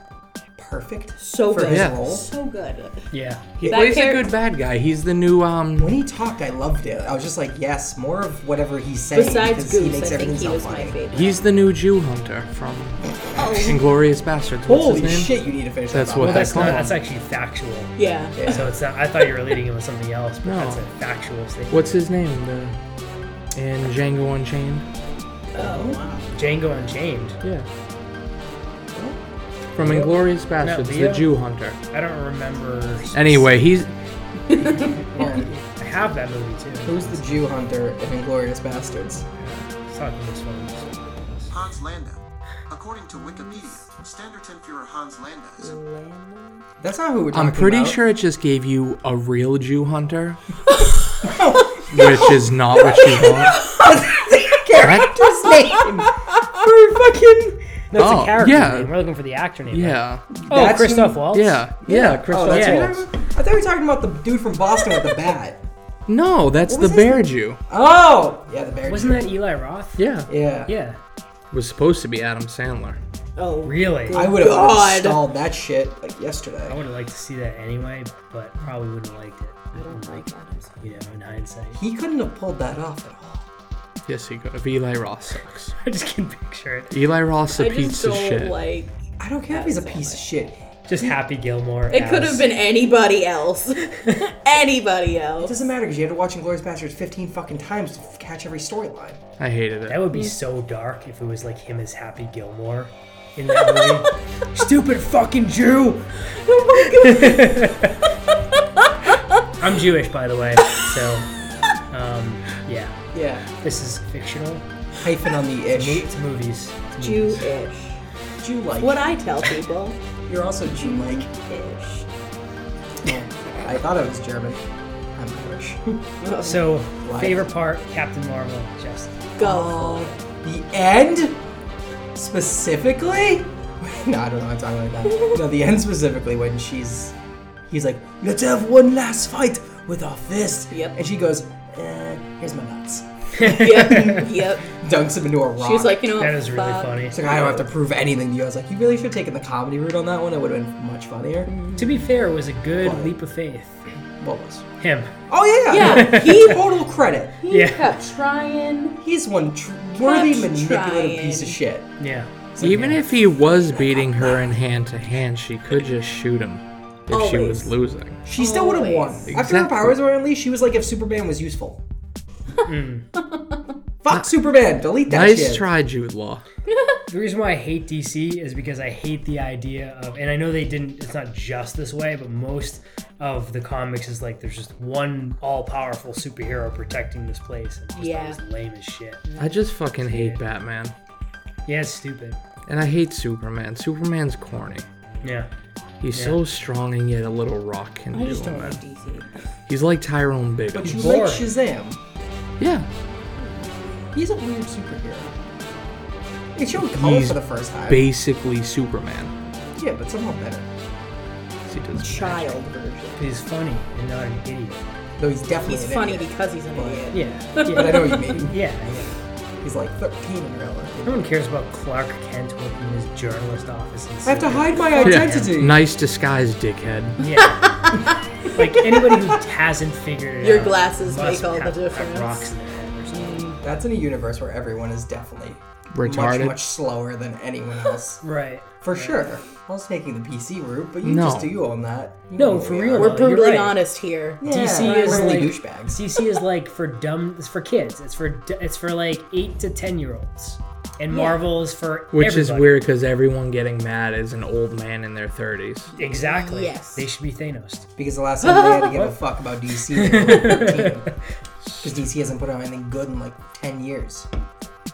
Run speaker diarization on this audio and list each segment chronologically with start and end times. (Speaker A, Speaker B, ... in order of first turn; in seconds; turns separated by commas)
Speaker A: 0.6-2.3, Speaker B: 1.2-3.1, Speaker C: 1.6-2.0, Speaker D: 3.1-3.5, Speaker C: 3.6-6.0, Speaker B: 3.6-4.3, Speaker A: 5.8-11.0, Speaker B: 9.1-11.4, Speaker C: 11.1-15.3, Speaker B: 13.3-13.8, Speaker A: 14.6-16.9, Speaker C: 15.9-17.0, Speaker D: 16.2-17.9, Speaker B: 18.0-18.6, Speaker A: 18.4-18.7, Speaker D: 18.5-21.9, Speaker C: 20.4-20.9, Speaker C: 21.7-22.8, Speaker C: 23.5-24.9, Speaker B: 25.5-26.3, Speaker A: 25.5-26.0, Speaker D: 26.3-27.4, Speaker C: 27.4-27.7, Speaker A: 28.9-29.2, Speaker C: 29.7-31.8, Speaker A: 29.8-30.1, Speaker D: 30.6-31.3, Speaker D: 31.9-33.5, Speaker C: 33.1-33.9, Speaker B: 34.5-35.0, Speaker A: 35.0-35.5, Speaker D: 35.1-37.4, Speaker A: 36.8-39.2, Speaker C: 39.4-39.7, Speaker D: 39.8-41.5, Speaker E: 41.5-45.8, Speaker B: 43.1-43.8, Speaker B: 45.6-46.6, Speaker A: 46.8-48.0, Speaker C: 47.3-50.4, Speaker A: 51.2-57.6, Speaker B: 51.8-54.0, Speaker C: 51.9-53.7, Speaker B: 54.8-56.5, Speaker C: 54.8-55.1, Speaker D: 57.9-61.6, Speaker C: 57.9-58.9, Speaker C: 59.7-60.3, Speaker A: 60.3-61.3, Speaker C: 61.3-63.1, Speaker A: 61.8-65.6, Speaker D: 62.4-62.8, Speaker C: 66.1-67.6, Speaker A: 66.7-69.3, Speaker D: 68.9-70.0, Speaker C: 70.0-70.3, Speaker A: 70.3-70.7, Speaker D: 70.7-71.0, Speaker C: 71.5-73.0, Speaker B: 73.3-75.2, Speaker D: 73.6-74.3, Speaker A: 74.1-76.8, Speaker D: 76.7-80.2, Speaker B: 79.7-80.8, Speaker D: 80.8-81.8, Speaker A: 81.8-83.5, Speaker C: 84.0-85.7, Speaker D: 85.8-86.9, Speaker C: 86.9-88.5, Speaker B: 87.5-90.2, Speaker A: 89.2-91.1, Speaker D: 90.9-92.5, Speaker B: 91.9-95.6, Speaker D: 94.0-94.3, Speaker A: 95.4-99.2, Speaker C: 99.4-100.1, Speaker D: 99.9-106.2, Speaker B: 106.3-107.9, Speaker D: 107.0-108.0, Speaker D: 109.6-111.3, Speaker D: 111.9-113.0, Speaker A: 113.1-113.4, Speaker D: 113.5-114.7, Speaker A: 115.0-116.1, Speaker D: 115.7-117.4, Speaker B: 117.0-118.0, Speaker A: 118.4-119.0, Speaker B: 118.8-120.0, Speaker A: 120.3-121.3, Speaker B: 120.7-122.1, Speaker A: 123.0-124.6, Speaker B: 123.4-123.7, Speaker A: 125.1-126.0, Speaker B: 126.2-126.8, Speaker D: 126.4-129.2, Speaker A: 127.0-127.5, Speaker B: 129.3-130.2, Speaker A: 129.4-131.4, Speaker A: 132.1-137.1, Speaker B: 135.1-135.4, Speaker A: 137.7-146.0, Speaker B: 140.7-141.0, Speaker D: 143.3-144.2, Speaker B: 143.4-144.8, Speaker B: 145.6-147.6, Speaker D: 146.2-147.2, Speaker A: 147.1-151.5, Speaker B: 151.5-152.0, Speaker D: 151.8-153.8, Speaker A: 152.8-153.1, Speaker A: 154.2-154.6, Speaker D: 154.8-155.1, Speaker A: 155.3-157.3, Speaker B: 155.7-156.7, Speaker D: 155.8-156.6, Speaker B: 157.4-159.0, Speaker D: 157.5-157.9, Speaker A: 159.0-161.9, Speaker B: 159.9-161.6, Speaker D: 162.0-163.0, Speaker A: 162.5-162.9, Speaker C: 162.6-168.2, Speaker A: 163.7-164.5, Speaker B: 167.1-167.7, Speaker A: 168.2-171.8, Speaker B: 168.3-169.3, Speaker C: 169.3-169.9, Speaker D: 172.7-173.1, Speaker B: 173.1-173.6, Speaker A: 174.0-175.7, Speaker C: 175.1-176.4, Speaker B: 176.7-177.0, Speaker D: 177.1-189.2, Speaker B: 187.9-188.4, Speaker B: 189.2-189.6, Speaker C: 189.4-190.9, Speaker D: 190.0-190.4, Speaker D: 191.7-192.4, Speaker C: 192.7-194.9, Speaker D: 195.2-195.5, Speaker C: 196.0-198.8, Speaker D: 196.1-196.4, Speaker B: 198.1-199.3, Speaker C: 199.7-201.2, Speaker A: 200.7-202.0, Speaker D: 200.8-201.5, Speaker C: 202.6-202.9, Speaker B: 203.3-204.1, Speaker A: 204.1-205.3, Speaker A: 206.5-208.0, Speaker C: 206.7-209.3, Speaker A: 209.8-210.7, Speaker C: 211.7-212.6, Speaker B: 211.9-213.2, Speaker D: 213.2-214.8, Speaker A: 215.2-217.1, Speaker B: 215.6-218.4, Speaker D: 217.1-219.1, Speaker A: 217.7-218.6, Speaker A: 219.6-221.3, Speaker D: 221.0-225.5, Speaker A: 224.2-225.8, Speaker B: 224.8-225.0, Speaker C: 225.0-227.2, Speaker D: 227.2-227.7, Speaker B: 227.3-229.1, Speaker D: 228.5-233.5, Speaker B: 230.4-232.5, Speaker B: 233.1-233.6, Speaker A: 233.6-238.2, Speaker C: 235.9-236.6, Speaker D: 238.2-239.2, Speaker A: 238.8-243.2, Speaker C: 241.0-241.5, Speaker D: 242.3-243.8, Speaker B: 242.9-245.5, Speaker A: 244.4-246.0, Speaker D: 244.4-252.8, Speaker B: 251.1-251.4, Speaker C: 252.1-255.9, Speaker B: 255.9-257.1, Speaker D: 255.9-257.9, Speaker A: 258.0-261.1, Speaker B: 258.4-259.0, Speaker D: 259.9-261.1, Speaker C: 261.6-261.9, Speaker A: 261.8-264.3